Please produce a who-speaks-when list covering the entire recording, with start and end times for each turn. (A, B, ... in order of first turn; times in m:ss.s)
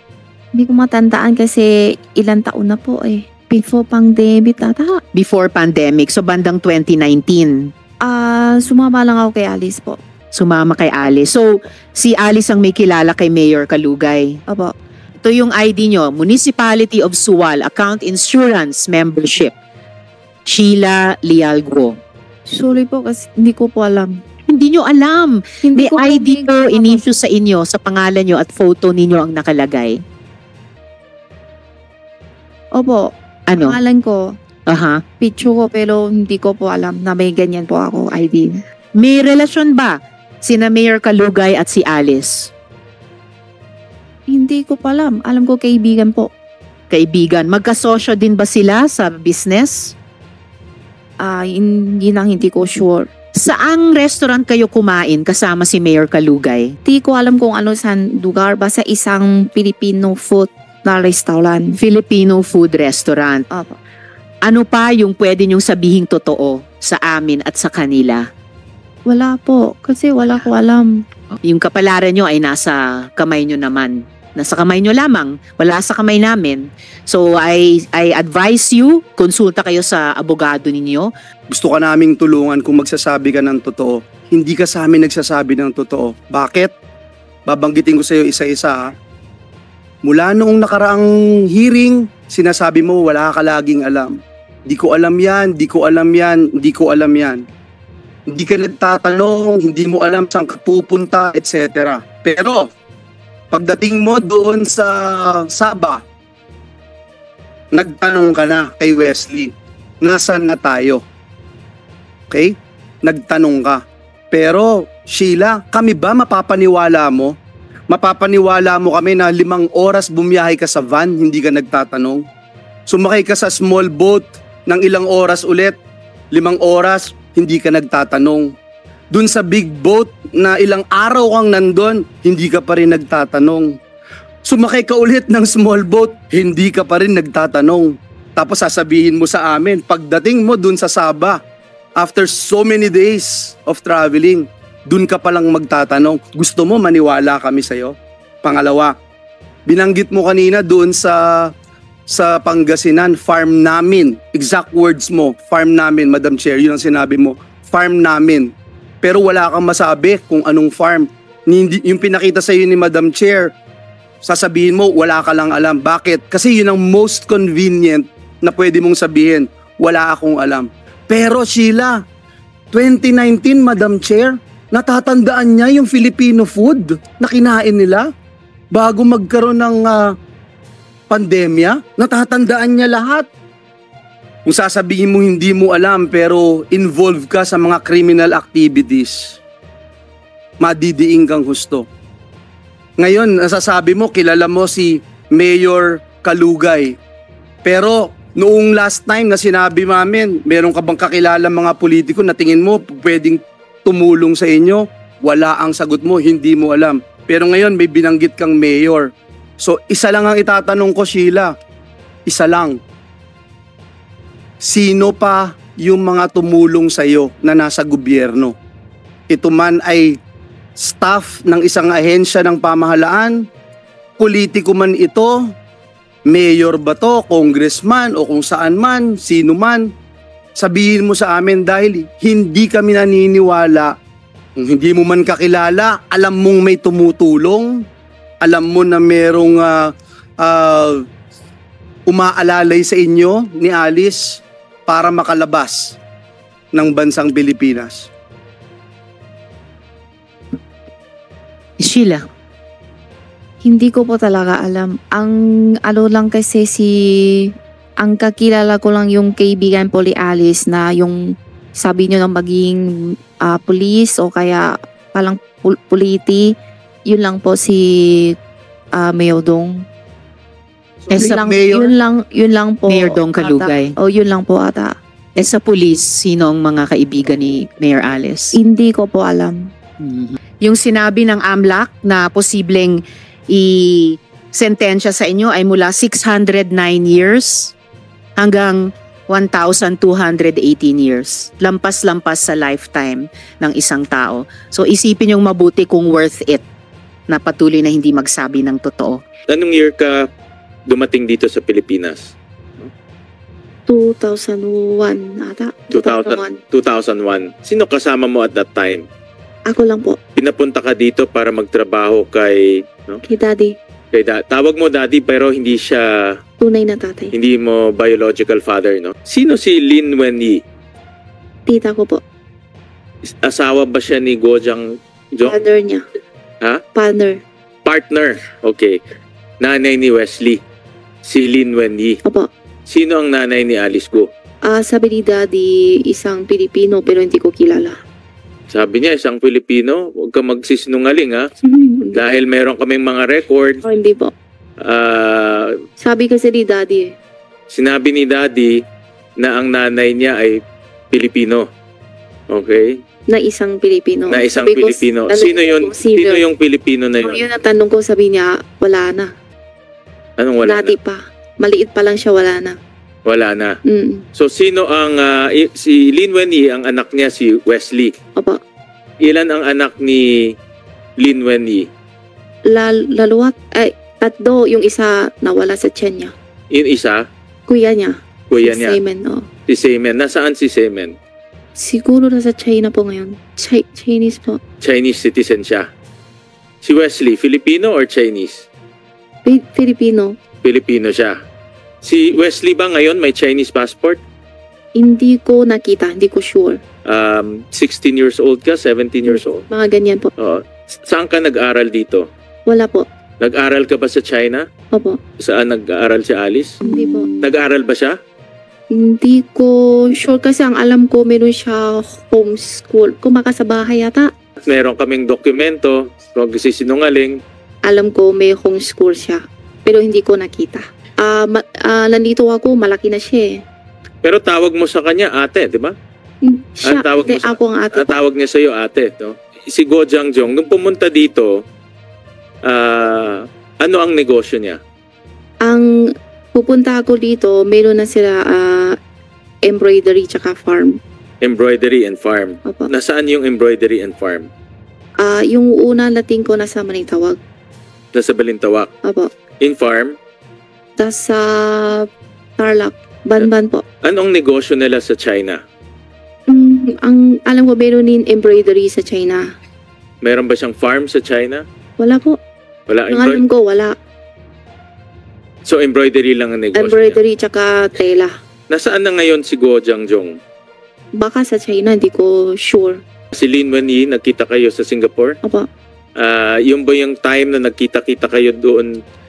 0:00.6-0:05.0 A
0:05.1-0:07.7 B
0:08.0-0:10.0 A
0:10.3-0:14.4 B
0:14.5-0:14.7 A
0:15.2-0:19.6 B
0:20.5-0:22.0 B
0:22.5-0:24.2 A
0:24.5-0:30.0 B
0:25.6-0:27.0 A
0:32.7-0:34.4 A
0:33.5-0:33.8 B
0:34.7-0:35.0 B
0:35.2-0:38.6 A
0:39.0-0:42.5 B
0:44.3-0:46.3 A
0:46.9-0:49.9 B
0:51.2-0:53.1 A
0:53.4-0:56.7 B
0:56.9-1:01.8 A
1:01.8-1:03.4 B
1:03.5-1:03.8 A
1:04.4-1:08.3 B
1:09.1-1:11.0 A
1:11.4-1:21.1 B
1:21.5-1:26.7 C
1:27.5-1:29.0 C
1:30.0-1:37.4 C
1:38.3-1:42.7 C
1:43.5-1:46.0 C
1:47.7-1:51.0 C
1:52.3-1:57.4 C
1:57.9-2:02.2 C
2:02.9-2:05.8 C
2:06.3-2:08.5 C
2:09.1-2:13.8 C
2:14.4-2:21.4 C
2:22.0-2:29.0 C
2:29.7-2:31.5 C
2:32.1-2:38.5 C
2:39.0-2:43.5 C
2:44.2-2:52.0 C
2:52.7-2:58.1 C
2:58.7-3:00.2 C
3:01.1-3:03.3 C
3:04.5-3:09.4 C
3:10.6-3:11.9 C
3:13.0-3:17.0 C
3:17.6-3:31.5 C
3:32.3-3:32.8 C
3:34.6-3:38.6 C
3:39.3-3:40.2 C
3:40.8-3:43.4 C
3:44.2-3:45.5 C
3:46.3-3:49.9 C
3:50.6-3:54.0 C
3:54.6-3:57.8 C
3:58.4-4:01.0 C
4:02.1-4:06.0 C
4:06.7-4:08.1 C
4:11.8-4:12.2 B
4:13.6-4:26.5 A
4:27.1-4:28.4 A
4:28.9-4:29.8 A
4:31.0-4:31.9 C
4:31.1-4:31.5 B
4:31.2-4:35.0 A
4:32.9-4:34.0 B
4:35.4-4:38.6 B
4:38.5-4:39.7 A
4:40.0-4:43.0 B
4:43.5-4:47.7 B
4:48.4-4:48.8 B
4:49.3-4:56.6 B
4:57.3-4:59.2 B
4:59.5-5:00.3 D
5:00.9-5:02.9 D
5:03.9-5:06.6 A
5:05.9-5:09.1 D
5:09.7-5:10.2 A
5:10.4-5:13.2 D
5:13.3-5:13.8 A
5:14.1-5:16.4 D
5:16.6-5:17.3 A
5:17.3-5:20.6 D
5:21.7-5:22.2 A
5:23.2-5:25.6 D
5:25.4-5:26.0 A
5:27.0-5:27.4 A
5:27.8-5:29.0 D
5:29.6-5:30.6 D
5:31.2-5:32.2 D
5:32.9-5:34.3 D
5:34.6-5:38.0 A
5:38.7-5:41.5 D
5:41.6-5:42.2 A
5:42.1-5:43.8 D
5:43.8-5:44.3 A
5:44.8-5:45.8 D
5:46.0-5:47.1 A
5:47.7-5:48.8 D
5:49.4-5:51.7 D
5:52.5-5:53.0 D
5:53.3-5:56.4 A
5:54.3-5:57.4 D
5:57.2-5:59.3 A
6:00.4-6:01.0 D
6:00.6-6:02.8 A
6:03.2-6:03.8 D
6:03.9-6:04.2 A
6:04.4-6:08.1 D
6:09.2-6:10.6 D
6:11.2-6:11.9 D
6:12.7-6:16.3 A
6:16.7-6:17.2 D
6:17.7-6:19.5 A
6:18.5-6:19.0 D
6:19.7-6:21.2 D
6:21.8-6:24.6 A
6:24.8-6:25.9 D
6:26.8-6:28.6 D
6:29.4-6:30.4 A
6:30.6-6:31.4 D
6:32.0-6:34.2 D
6:35.0-6:36.8 A
6:37.1-6:39.6 D
6:39.3-6:40.3 A
6:40.4-6:42.3 D
6:42.7-6:43.1 A
6:43.4-6:44.6 D
6:44.9-6:45.2 A
6:45.4-6:48.2 D
6:46.8-6:47.4 A
6:48.9-6:54.3 A
6:54.6-6:57.4 D
6:57.8-7:03.6 A
7:04.2-7:06.0 D
7:06.4-7:08.2 A
7:06.8-7:11.6 D
7:12.6-7:14.8 D
7:15.6-7:15.9 A
7:16.5-7:19.0 A
7:19.6-7:21.0 A
7:21.4-7:24.5 D
7:25.2-7:27.4 A
7:28.1-7:28.9 D
7:29.0-7:29.3 A
7:29.6-7:30.2 D
7:31.0-7:33.8 A
7:34.0-7:35.6 D
7:36.5-7:39.5 A
7:40.2-7:41.6 D
7:42.0-7:42.4 A
7:42.9-7:43.4 D
7:43.1-7:44.0 A
7:45.6-7:47.2 D
7:46.8-7:48.3 A
7:48.7-7:50.4 D
7:51.2-7:53.0 A
7:53.3-7:55.4 D
7:56.2-7:59.0 D